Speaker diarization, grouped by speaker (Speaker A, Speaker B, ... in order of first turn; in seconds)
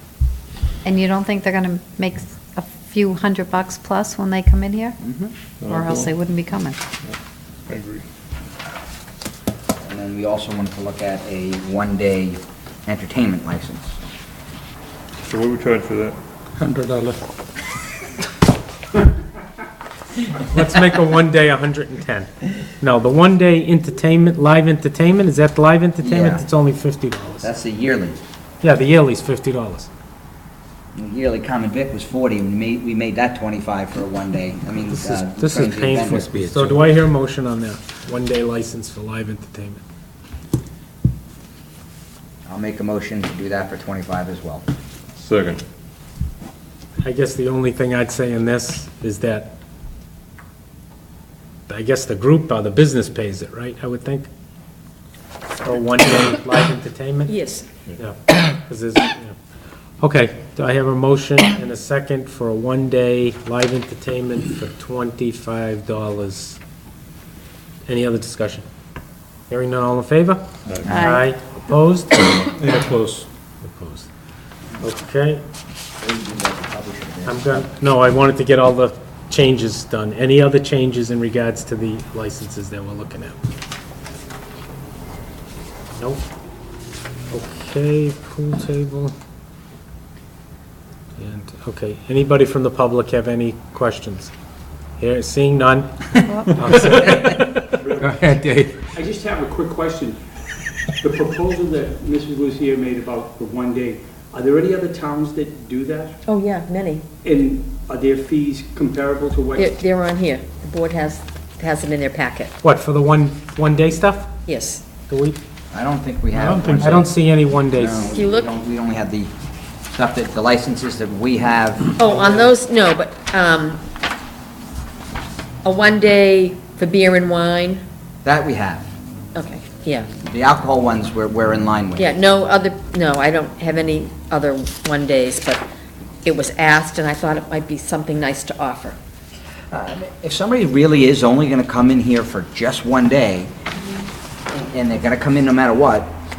Speaker A: 0.8-5.0, 5.6-6.8, 70.8-71.2, 96.2-96.5
Speaker B: 5.0-5.3, 9.8-14.0, 26.0-26.4, 27.4-28.2, 30.9-36.3, 42.5-44.6, 76.0-77.7, 115.7-119.3, 119.9-121.9, 128.2-128.9, 130.2-132.1, 139.7-143.5, 144.5-146.1
Speaker C: 5.6-6.1, 7.7-8.0, 15.3-16.2, 36.3-36.7, 45.2-45.6, 70.7-70.9, 72.4-73.2
Speaker D: 16.6-17.2, 97.8-100.2, 101.0-106.2, 107.2-109.7
Speaker E: 20.4-27.5, 28.6-29.9, 34.9-39.8, 47.0-49.5, 51.7-54.3, 55.6-57.3, 58.0-59.4, 60.0-66.6, 67.8-68.6, 69.5-72.2, 73.6-74.1, 74.8-75.4, 77.2-83.4, 86.0-86.2, 87.3-89.1, 91.2-94.3, 95.0-98.8, 112.6-114.3, 115.1-115.4, 116.3-118.1, 122.1-122.5
Speaker F: 57.3-57.7, 106.3-107.0, 109.6-112.5, 114.5-114.8, 118.1-118.5, 122.0-123.8, 125.6-127.8, 129.3-130.1, 131.9-135.6, 136.2-139.0